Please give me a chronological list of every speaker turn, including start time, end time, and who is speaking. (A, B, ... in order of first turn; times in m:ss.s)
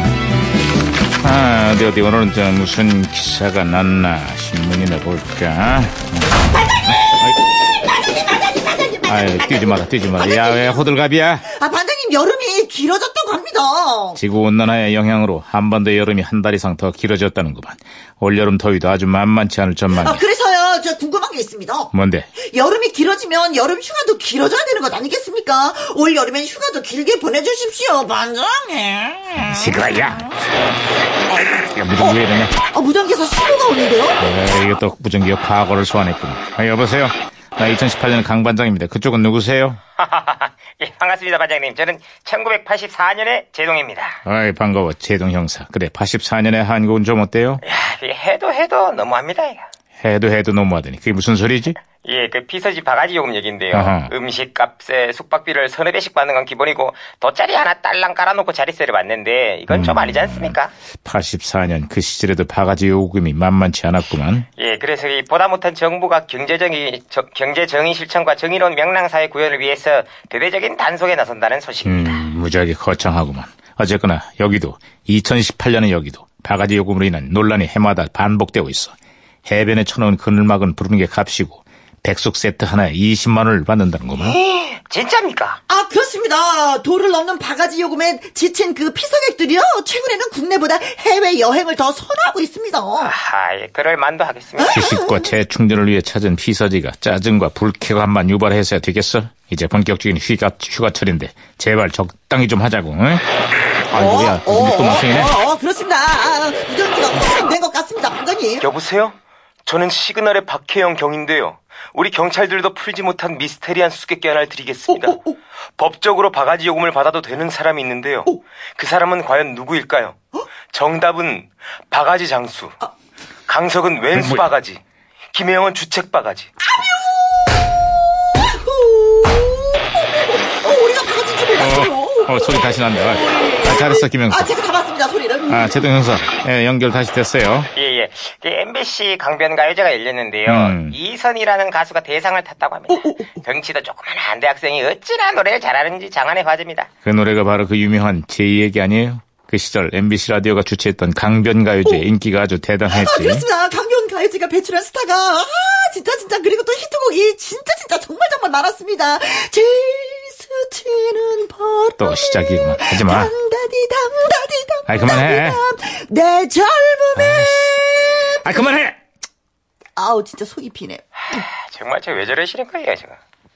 0:01.2-0:07.4 A
0:06.6-0:10.9 B
0:09.1-0:11.5 A
0:11.4-0:14.2 B
0:14.2-0:20.2 A
0:19.9-0:30.1 B
0:21.9-0:22.3 A
0:29.4-0:30.3 A
0:31.3-0:34.2 B
0:31.5-0:32.6 A
0:34.2-0:39.8 A
0:40.0-0:44.2 C
0:44.2-0:47.6 A
0:47.6-0:49.6 C
0:50.0-0:51.8 A
0:52.0-1:00.7 C
0:53.7-0:54.1 A
0:59.7-1:04.5 A
1:04.6-1:12.3 C
1:11.8-1:24.4 A
1:24.2-1:25.6 C
1:25.7-1:33.1 B
1:33.0-1:34.8 C
1:34.6-1:35.3 B
1:34.7-1:43.3 A
1:43.9-1:45.4 A
1:43.9-1:48.7 B
1:48.6-1:55.2 C
1:54.9-1:55.3 B
1:55.8-2:00.2 C
2:00.7-2:02.8 C
2:03.5-2:04.8 C
2:04.2-2:04.4 A
2:05.3-2:06.5 C
2:06.7-2:16.0 B
2:11.6-2:14.5 A
2:15.5-2:17.7 A
2:17.7-2:26.9 C
2:20.5-2:21.0 A
2:22.9-2:23.3 B
2:27.0-2:33.4 A
2:32.9-2:48.8 B
2:42.0-2:43.3 A
2:44.9-2:45.6 A
2:47.2-2:47.8 A
2:48.4-2:49.0 A
2:50.0-2:51.4 B
2:51.2-2:53.2 C